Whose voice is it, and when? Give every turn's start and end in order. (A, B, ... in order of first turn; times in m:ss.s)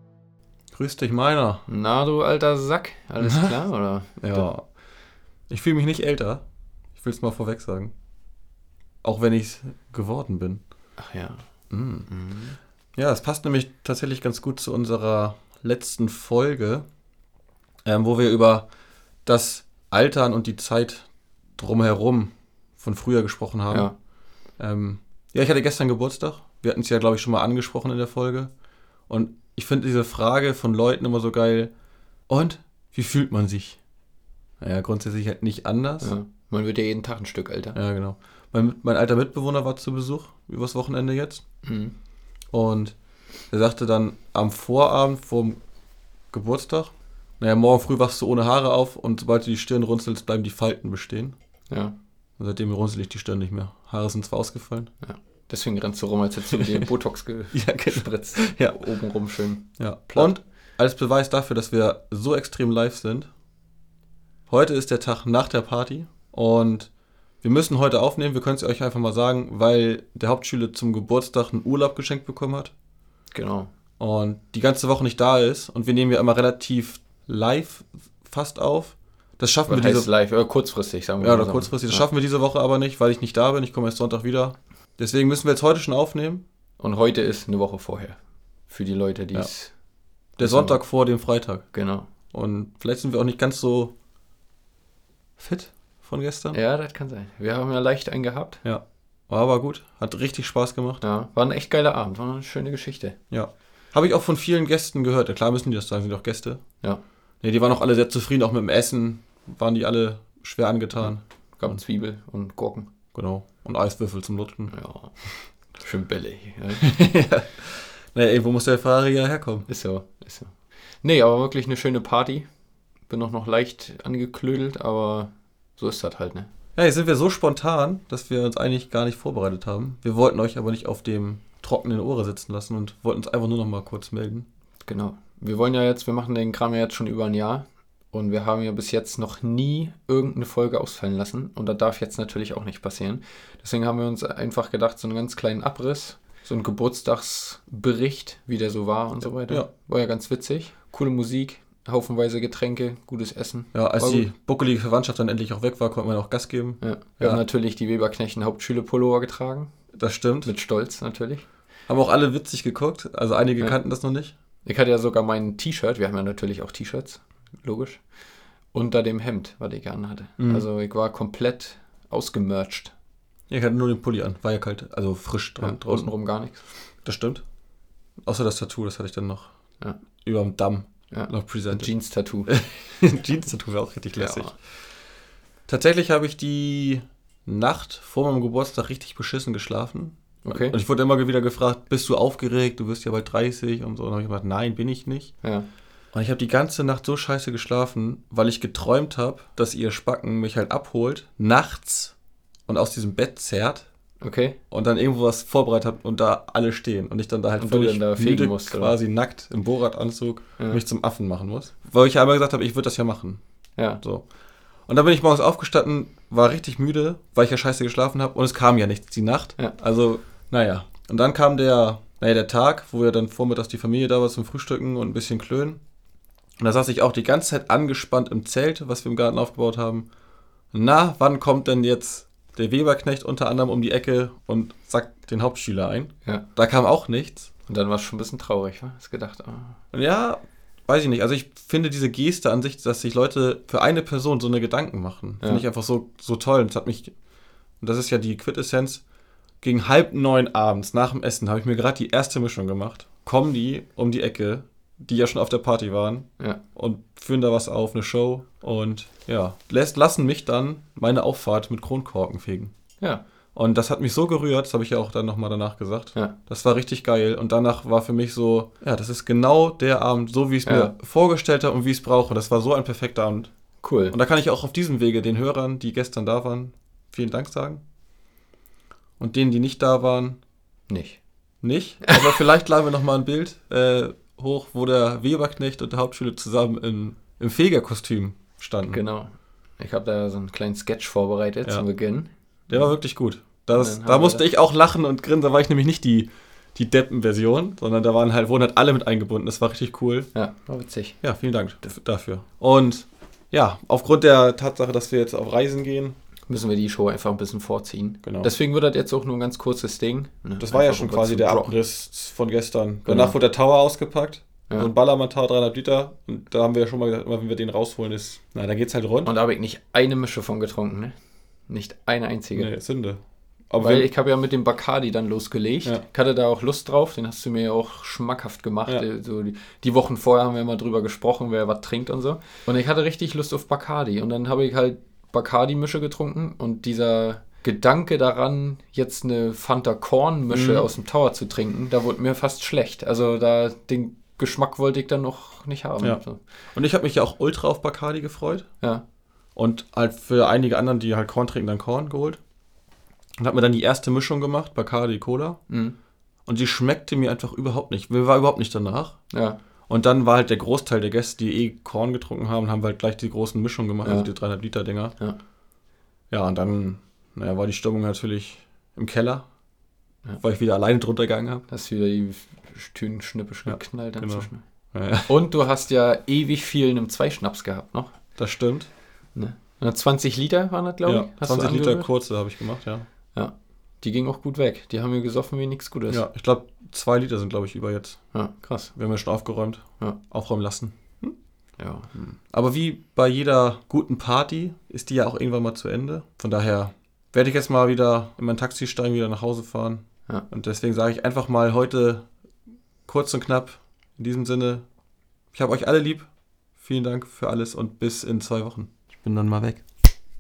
0:00.7-0:01.6 A
0:01.7-0:04.5 B
0:03.2-0:03.6 A
0:04.2-0:04.6 A
0:05.5-0:06.4 A
0:07.0-0:07.9 A
0:09.0-0:10.6 A
0:11.0-0:11.5 B
0:11.7-0:12.1 A
0:12.1-0:12.6 B
0:13.0-0:16.8 A
0:17.8-0:18.7 A
0:19.2-0:21.1 A
0:21.6-0:23.9 A
0:23.7-0:24.0 B
0:24.6-0:28.5 A
0:29.1-0:31.7 A
0:32.3-0:33.8 A
0:34.6-0:36.1 A
0:36.0-0:37.8 B
0:37.8-0:41.4 A
0:41.6-0:42.0 B
0:42.5-0:43.0 A
0:43.5-0:45.6 A
0:46.3-0:51.4 A
0:51.7-0:52.0 B
0:52.4-0:54.9 A
0:55.0-1:00.4 B
0:56.5-0:56.9 A
0:57.5-0:58.8 A
0:59.8-1:03.3 A
1:04.5-1:06.9 A
1:07.4-1:12.7 A
1:13.3-1:13.7 B
1:14.0-1:20.1 A
1:19.7-1:22.1 B
1:21.2-1:26.4 A
1:26.8-1:28.2 B
1:28.7-1:29.7 B
1:30.4-1:31.6 A
1:30.4-1:30.8 B
1:31.7-1:32.1 B
1:32.3-1:33.9 A
1:35.4-1:36.6 A
1:36.5-1:38.6 B
1:38.6-1:41.0 A
1:41.0-1:43.2 B
1:43.3-1:46.6 A
1:47.4-1:51.8 A
1:51.0-1:52.9 B
1:53.1-1:54.7 A
1:54.7-1:55.1 B
1:55.8-1:56.9 B
1:56.8-1:59.7 A
1:59.7-2:02.5 B
2:03.1-2:06.5 B
2:06.8-2:14.5 A
2:14.8-2:34.3 B
2:33.7-2:37.4 A
2:36.8-2:39.7 B
2:39.9-2:40.5 A
2:40.4-2:41.5 B
2:41.9-2:44.3 A
2:44.6-2:48.0 B
2:48.7-2:52.9 B
2:50.4-2:50.7 A
2:53.5-2:56.1 A
2:55.6-2:56.6 B
2:57.0-2:57.4 A
2:58.2-2:59.5 A
3:00.2-3:01.9 A
3:01.1-3:02.5 B
3:02.5-3:04.6 A
3:04.2-3:04.6 B
3:05.7-3:15.3 A
3:10.4-3:10.8 B
3:16.1-3:22.2 A
3:22.7-3:23.9 A
3:24.2-3:24.6 B
3:24.7-3:33.4 A
3:27.6-3:29.0 B
3:33.8-3:34.0 B
3:34.9-3:45.8 A
3:46.6-3:50.1 A
3:50.7-3:57.5 A
3:57.7-3:59.8 B
3:59.9-4:07.1 A
4:07.8-4:09.0 A
4:09.6-4:22.7 A
4:23.6-4:33.5 A
4:30.6-4:30.9 B
4:33.8-4:34.2 B
4:34.1-4:37.8 A
4:39.2-4:40.4 A
4:40.9-4:41.2 B
4:41.6-4:49.0 A
4:48.9-4:52.9 B
4:52.7-5:00.3 A
4:53.8-4:54.5 B
5:00.3-5:01.2 B
5:01.2-5:06.2 A
5:06.5-5:11.8 B
5:08.2-5:08.5 A
5:10.6-5:19.3 A
5:13.0-5:13.4 B
5:19.2-5:21.1 B
5:21.7-5:22.7 B
5:22.6-5:24.1 A
5:23.8-5:46.4 B
5:40.5-5:40.9 A
5:46.7-5:48.7 A
5:49.6-5:52.4 A
5:53.4-5:55.6 A
5:55.7-5:56.0 B
5:56.5-5:59.2 A
5:59.3-5:59.6 B
5:59.9-6:05.2 A
6:04.0-6:04.3 B
6:06.3-6:09.5 A
6:10.4-6:11.7 A
6:11.7-6:14.6 B
6:13.7-6:15.4 A
6:15.3-6:18.1 B
6:18.4-6:18.9 A
6:19.4-6:22.1 B
6:21.1-6:23.1 A
6:23.3-6:26.2 B
6:26.1-6:28.2 A
6:28.3-6:28.9 B
6:29.0-6:31.4 A
6:31.8-6:32.1 B
6:32.2-6:42.3 A
6:43.1-6:44.8 A
6:45.5-6:49.8 A